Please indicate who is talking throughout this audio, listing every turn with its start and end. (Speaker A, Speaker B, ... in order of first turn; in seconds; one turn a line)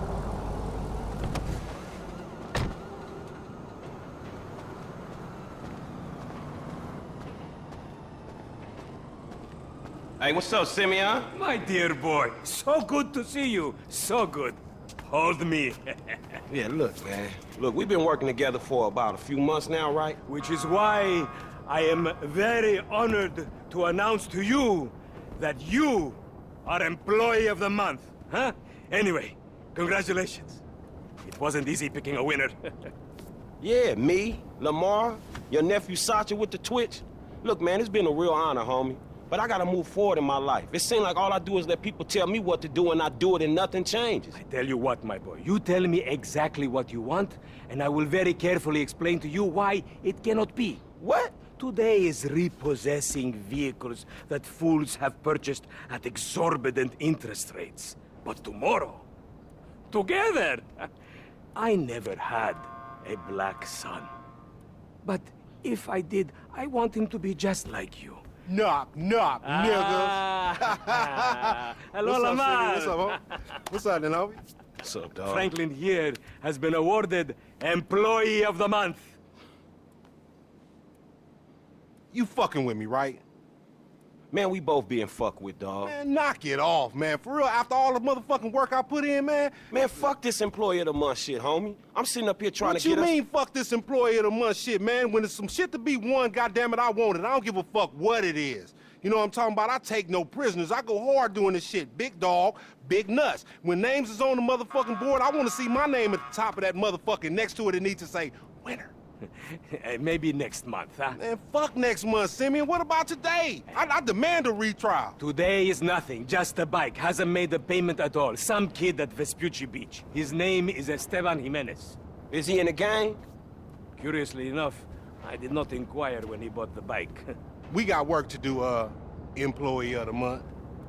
Speaker A: 10.2-11.3
Speaker B: 11.3-16.4
Speaker A: 16.5-20.2
Speaker B: 20.2-30.6
Speaker B: 31.2-32.9
Speaker A: 33.6-44.4
Speaker B: 44.4-50.8
Speaker A: 51.0-51.4
Speaker B: 51.5-59.1
Speaker B: 59.9-60.9
Speaker B: 61.5-64.1
Speaker B: 65.0-68.2
Speaker C: 68.5-74.4
Speaker B: 69.4-73.3
Speaker A: 74.8-75.5
Speaker B: 75.2-79.2
Speaker C: 82.1-83.2
Speaker A: 84.3-86.0
Speaker C: 85.8-89.6
Speaker A: 89.7-93.2
Speaker C: 92.6-108.9
Speaker B: 109.4-111.2
Speaker C: 111.1-115.2
Speaker B: 115.2-122.0
Speaker A: 122.3-123.2
Speaker B: 124.0-127.3
Speaker C: 127.7-130.5